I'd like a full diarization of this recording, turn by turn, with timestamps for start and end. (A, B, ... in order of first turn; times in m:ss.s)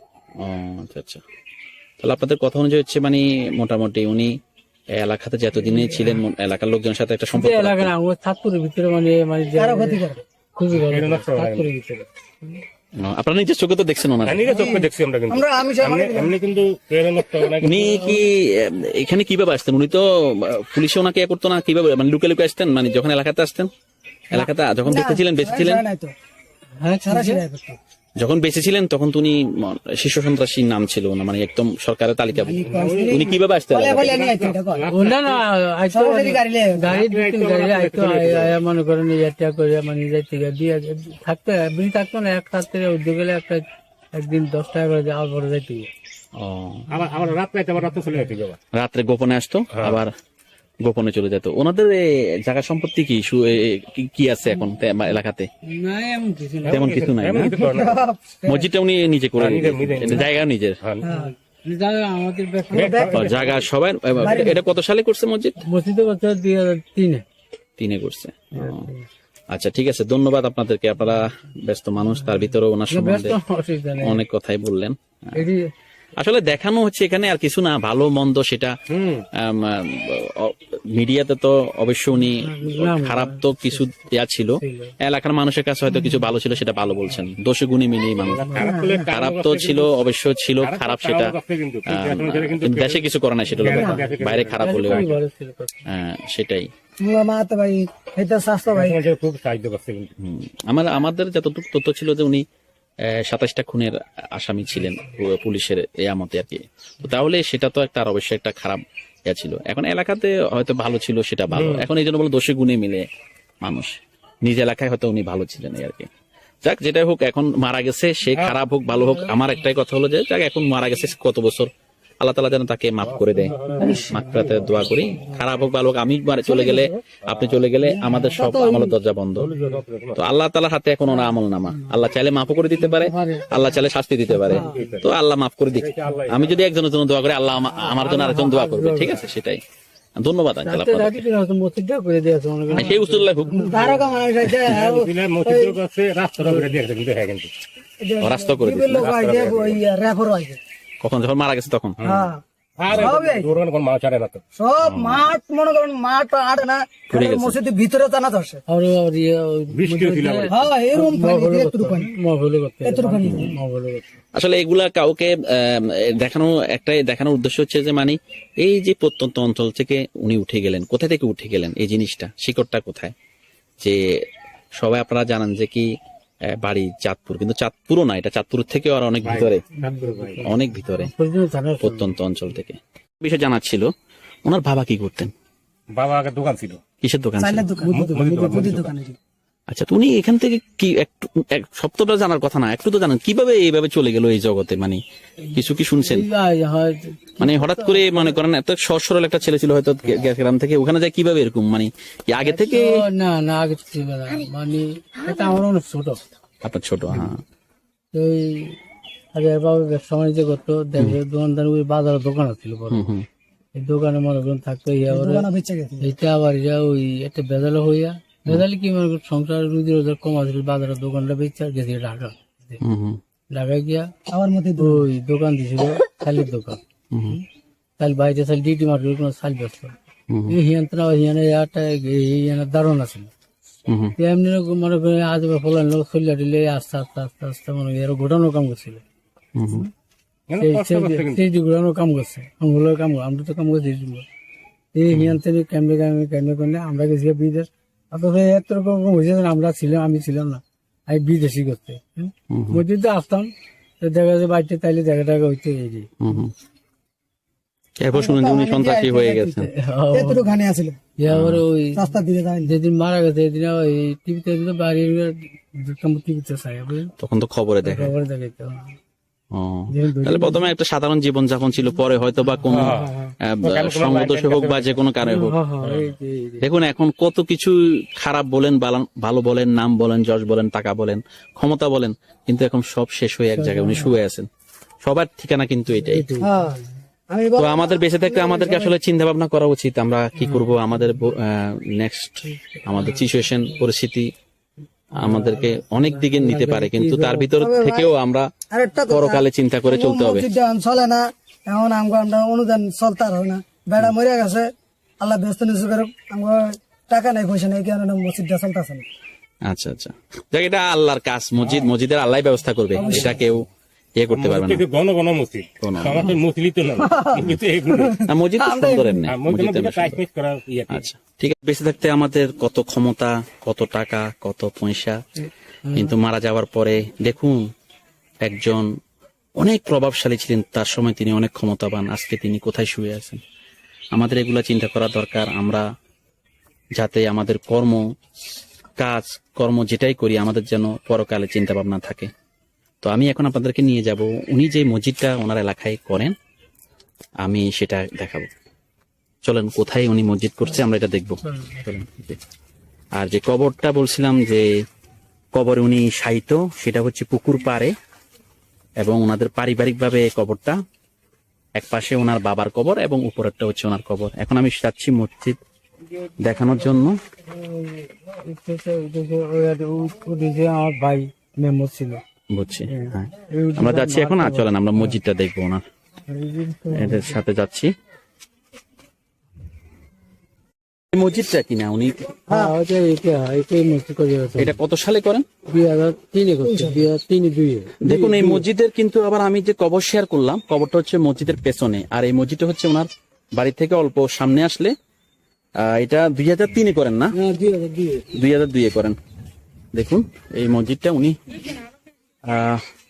0:00.4-0:01.2 A
0:02.0-0:04.4 A
0:04.9-0:07.9 A
0:05.7-0:06.2 B
0:07.4-0:12.6 B
0:09.6-0:10.2 C
0:10.7-0:11.7 D
0:13.0-0:14.4 A
0:14.2-0:17.9 D
0:14.5-0:16.4 C
0:17.6-0:23.7 A
0:24.3-0:25.8 A
0:24.3-0:26.1 C
0:26.8-0:27.4 B
0:27.1-0:27.8 C
0:28.2-0:34.2 A
0:32.4-0:34.9 C
0:32.6-0:33.3 D
0:34.0-0:35.4 D
0:34.9-0:45.9 B
0:35.9-0:36.9 C
0:36.8-0:38.5 D
0:46.4-0:46.9 A
0:46.9-0:48.6 D
0:48.7-0:50.1 A
0:49.8-0:50.0 D
0:50.8-0:55.5 A
0:55.7-0:56.9 B
0:56.7-0:58.0 D
0:56.7-0:57.6 A
0:57.6-0:58.7 C
0:58.5-1:00.8 A
0:59.4-1:00.3 D
1:01.0-1:01.3 C
1:01.1-1:03.1 B
1:02.7-1:03.3 C
1:02.7-1:03.7 D
1:03.1-1:05.6 A
1:04.2-1:04.6 C
1:05.6-1:07.2 B
1:07.8-1:08.9 A
1:08.6-1:09.1 B
1:09.5-1:13.4 A
1:12.9-1:14.2 B
1:14.0-1:15.5 A
1:15.4-1:15.7 B
1:16.2-1:18.7 A
1:18.9-1:19.2 D
1:19.4-1:31.4 A
1:22.3-1:23.9 B
1:24.6-1:24.9 B
1:28.2-1:30.0 D
1:28.6-1:29.0 C
1:30.6-1:35.1 D
1:31.9-1:35.2 A
1:34.6-1:35.9 B
1:35.9-1:36.7 A
1:37.0-1:39.0 C
1:38.7-1:40.1 D
1:40.2-1:42.4 A
1:43.0-1:53.1 A
1:51.5-1:51.9 D
1:53.6-1:56.1 A
1:56.6-2:01.7 A
2:02.2-2:09.5 A
2:03.0-2:05.1 D
2:03.8-2:04.2 B
2:06.5-2:07.0 C
2:07.2-2:07.7 D
2:08.2-2:08.6 B
2:08.3-2:08.9 C
2:09.4-2:10.2 D
2:10.2-2:19.6 A
2:12.8-2:14.9 B
2:14.5-2:15.1 D
2:15.7-2:16.6 D
2:17.7-2:19.3 B
2:20.2-2:21.2 A
2:20.6-2:24.1 B
2:22.7-2:23.6 A
2:23.5-2:25.8 C
2:24.6-2:27.5 D
2:28.0-2:30.6 C
2:28.2-2:29.1 A
2:29.0-2:29.8 D
2:31.0-2:32.0 A
2:32.0-2:34.4 D
2:32.0-2:33.5 C
2:34.6-2:38.6 C
2:34.8-2:35.3 A
2:37.1-2:37.6 A
2:38.7-2:44.1 B
2:39.7-2:40.6 D
2:40.5-2:42.1 C
2:42.8-2:43.5 C
2:43.3-2:43.5 A
2:44.4-2:53.1 A
2:53.8-2:54.3 A
2:54.8-2:55.9 A
2:56.5-2:59.7 A
2:59.2-3:00.5 D
2:59.8-3:02.1 B
3:00.4-3:01.1 A
3:01.8-3:03.9 A
3:04.5-3:05.3 A
3:05.9-3:06.8 D
3:07.0-3:07.7 A
3:07.4-3:09.2 C
3:07.9-3:08.7 B
3:07.9-3:08.9 D
3:09.7-3:15.0 A
3:15.5-3:16.3 A
3:16.0-3:18.4 B
3:17.4-3:22.9 A
3:22.4-3:26.3 B
3:26.6-3:27.4 A
3:28.1-3:28.8 B
3:29.3-3:33.1 B
3:32.9-3:33.3 A
3:33.8-3:35.5 B
3:35.1-3:36.0 C
3:36.0-3:42.8 B
3:42.8-3:43.2 A
3:43.5-3:44.1 B
3:44.3-3:45.1 C
3:44.8-3:46.8 B
3:47.1-3:47.4 A
3:48.0-3:50.0 B
3:50.3-3:50.6 A
3:50.5-3:53.3 B
3:53.9-3:54.2 A
3:54.2-3:59.0 B
3:59.6-3:59.9 A
4:00.5-4:01.4 D
4:00.6-4:04.3 B
4:05.0-4:13.5 B
4:05.1-4:05.4 A
4:12.5-4:12.8 A
4:14.0-4:16.1 B
4:16.2-4:16.5 A
4:18.0-4:19.7 A
4:18.1-4:19.6 C
4:19.6-4:20.5 B
4:20.1-4:21.0 C
4:21.2-4:27.1 B
4:21.3-4:21.6 A
4:22.0-4:22.7 C
4:27.2-4:28.1 A
4:27.8-4:29.0 B
4:29.5-4:35.6 A
4:29.9-4:30.7 B
4:32.7-4:35.1 D
4:32.7-4:33.3 B
4:35.3-4:36.7 B
4:35.8-4:36.1 D
4:36.6-4:44.5 A
4:43.6-4:44.2 B
4:45.0-4:46.3 A
4:46.0-4:46.6 B
4:46.4-4:48.9 C
4:47.6-4:54.3 A
4:52.5-4:53.3 B
4:55.2-4:57.5 B
4:55.2-4:58.5 A
4:57.6-4:58.1 C
4:58.7-5:09.1 C
4:59.1-5:00.5 A
5:09.7-5:13.7 A
5:11.6-5:11.9 D
5:13.0-5:13.4 D
5:13.0-5:13.3 C
5:14.2-5:14.8 A
5:14.3-5:18.3 D
5:15.8-5:16.4 A
5:17.0-5:19.2 C
5:18.3-5:20.2 A
5:19.3-5:21.0 D
5:20.9-5:25.2 A
5:25.9-5:26.1 B
5:25.9-5:27.7 A
5:28.4-5:28.9 A
5:29.6-5:33.4 A
5:34.1-5:35.8 A
5:37.0-5:38.0 A
5:39.0-5:42.3 A
5:43.0-5:46.3 A
5:47.4-5:48.5 A
5:49.4-5:52.4 A
5:51.5-5:51.8 B
5:53.2-5:54.7 A
5:55.6-5:57.9 A
5:59.0-6:00.8 A
6:01.8-6:05.6 A
6:06.4-6:07.2 A
6:07.5-6:12.2 B
6:12.5-6:15.8 A
6:12.9-6:15.2 B
6:16.3-6:17.4 B
6:16.9-6:17.9 A
6:21.1-6:22.2 A
6:22.5-6:22.8 C
6:22.5-6:24.8 B
6:24.6-6:25.4 A
6:25.7-6:28.6 B
6:26.7-6:27.0 C
6:28.0-6:34.9 A
6:35.8-6:37.4 A
6:37.4-6:38.2 B
6:38.3-6:39.2 A
6:39.9-6:41.4 A
6:42.5-6:42.8 A